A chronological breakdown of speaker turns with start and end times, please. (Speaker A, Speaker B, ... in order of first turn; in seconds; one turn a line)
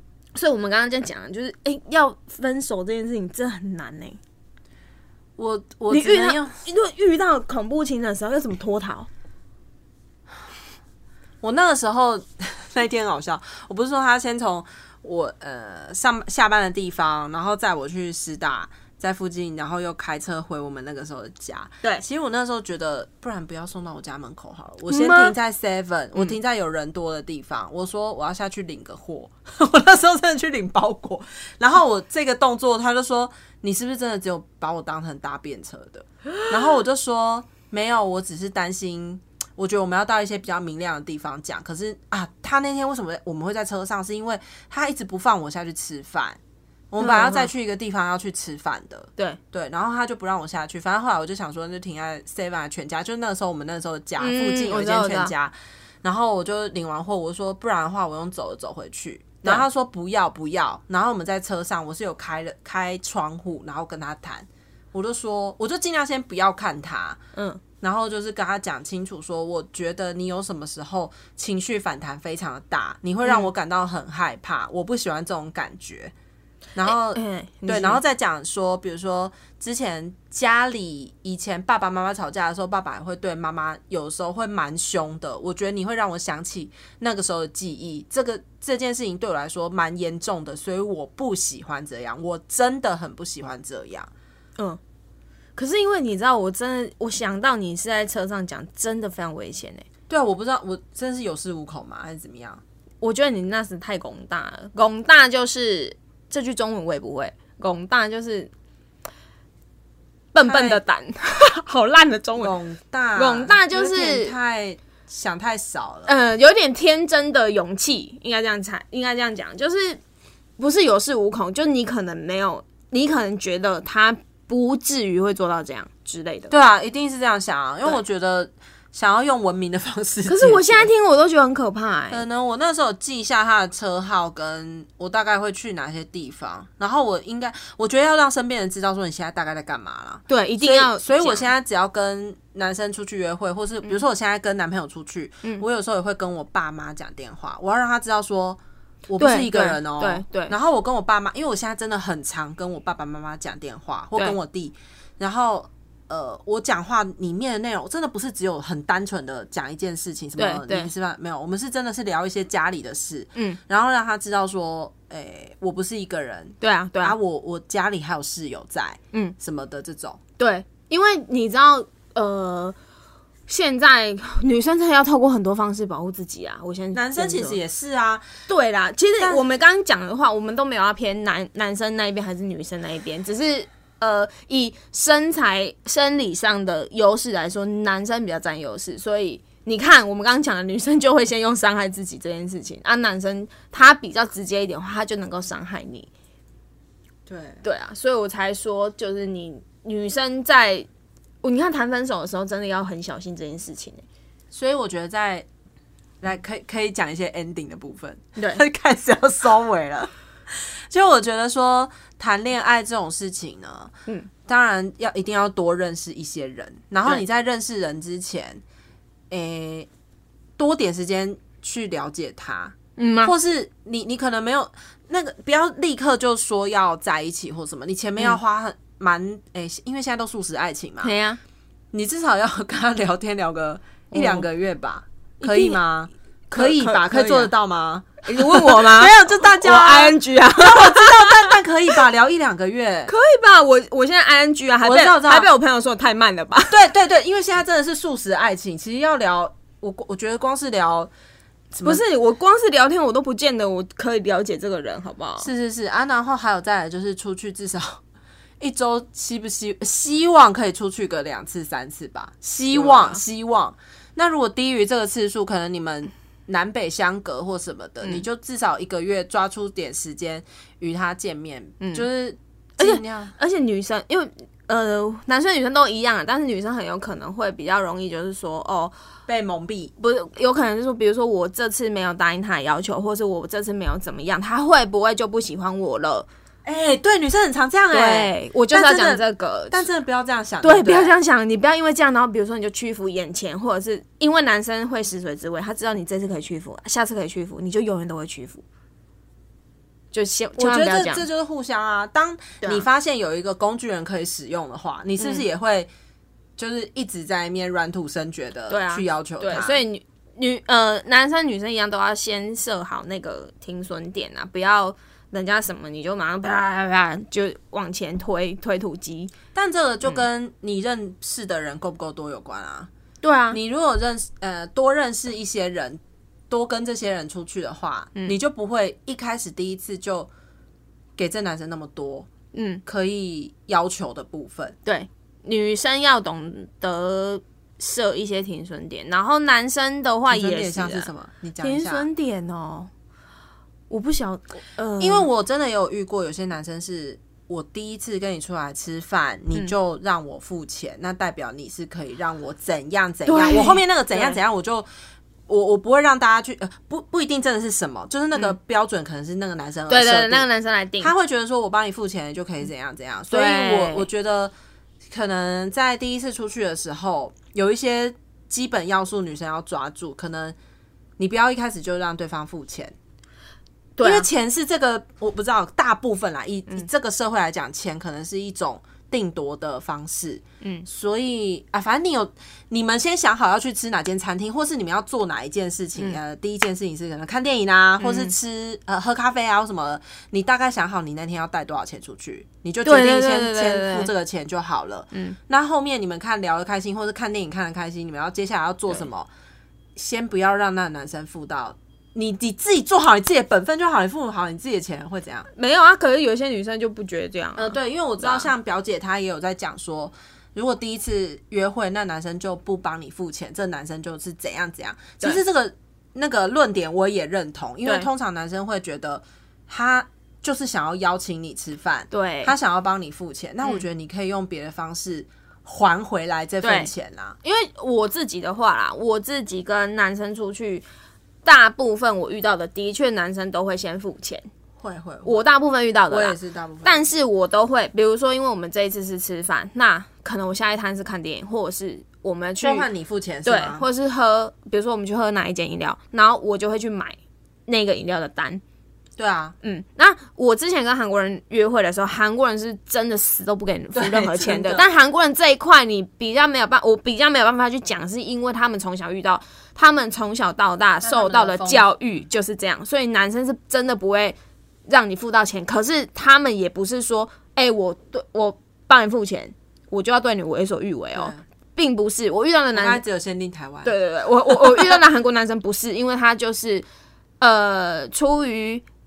Speaker A: 0.3-4.2
Speaker B: 5.4-6.6
Speaker A: 5.9-9.1
Speaker B: 11.4-46.4
Speaker A: 24.9-25.3
Speaker B: 46.9-67.2
Speaker A: 47.0-47.5
Speaker A: 54.2-55.3
Speaker A: 67.4-67.6
Speaker B: 67.8-76.1
Speaker B: 76.8-94.1
Speaker A: 77.1-78.0
Speaker A: 95.6-99.9
Speaker B: 100.1-102.6
Speaker A: 103.0-108.5
Speaker A: 110.3-112.5
Speaker B: 110.4-110.8
Speaker B: 112.4-116.1
Speaker A: 113.2-114.3
Speaker A: 116.1-120.0
Speaker A: 120.6-126.5
Speaker B: 126.5-130.9
Speaker A: 130.3-132.2
Speaker B: 132.1-170.2
Speaker A: 140.3-141.5
Speaker A: 149.2-150.6
Speaker A: 160.4-160.9
Speaker A: 163.3-163.6
Speaker A: 166.6-167.2
Speaker A: 170.4-172.8
Speaker A: 173.5-177.6
Speaker B: 176.9-178.2
Speaker A: 178.5-196.1
Speaker B: 197.3-197.6
Speaker A: 197.6-200.9
Speaker A: 201.4-204.0
Speaker B: 204.5-205.5
Speaker B: 206.2-213.9
Speaker B: 214.4-218.6
Speaker B: 219.3-219.9
Speaker B: 220.6-231.1
Speaker A: 223.0-223.3
Speaker A: 231.0-231.4
Speaker B: 231.9-243.1
Speaker A: 234.1-234.5
Speaker A: 235.4-235.8
Speaker A: 236.5-237.5
Speaker A: 238.2-241.5
Speaker A: 243.1-246.8
Speaker B: 244.8-245.5
Speaker B: 246.7-251.1
Speaker B: 251.7-252.0
Speaker A: 251.8-255.5
Speaker B: 255.4-258.0
Speaker B: 258.6-273.3
Speaker A: 262.7-263.2
Speaker A: 271.8-272.1
Speaker A: 272.8-278.9
Speaker B: 279.3-279.9
Speaker A: 280.0-286.3
Speaker B: 286.6-291.1
Speaker A: 287.9-289.9
Speaker A: 290.6-298.6
Speaker A: 300.1-301.2
Speaker B: 300.6-305.9
Speaker A: 305.2-305.5
Speaker B: 306.6-309.8
Speaker A: 308.7-319.3
Speaker B: 319.5-322.9
Speaker A: 323.2-323.6
Speaker B: 323.5-330.3
Speaker B: 331.2-332.3
Speaker A: 332.5-332.8
Speaker B: 332.9-334.8
Speaker A: 334.9-341.1
Speaker B: 340.3-342.1
Speaker A: 341.6-342.9
Speaker A: 343.9-345.3
Speaker B: 345.0-354.9
Speaker A: 353.3-354.4
Speaker B: 355.5-360.5
Speaker A: 359.9-361.1
Speaker B: 361.0-364.5
Speaker A: 363.3-364.1
Speaker B: 365.0-370.6
Speaker B: 371.2-372.9
Speaker A: 374.0-374.3
Speaker B: 374.0-399.3
Speaker A: 388.0-388.3
Speaker A: 392.9-394.1
Speaker B: 400.0-405.5
Speaker A: 405.5-408.5
Speaker B: 407.6-427.4
Speaker A: 422.1-422.5
Speaker A: 426.6-426.9
Speaker A: 427.4-430.9
Speaker A: 431.4-434.5
Speaker B: 434.8-435.4
Speaker A: 435.2-442.9
Speaker B: 436.1-437.1
Speaker B: 442.6-443.9
Speaker A: 443.5-448.6
Speaker B: 449.2-449.5
Speaker A: 449.6-473.0
Speaker B: 453.9-454.9
Speaker B: 461.0-461.9
Speaker B: 471.1-471.4
Speaker B: 472.8-473.9
Speaker A: 473.9-476.9
Speaker B: 474.5-475.0
Speaker A: 477.4-478.9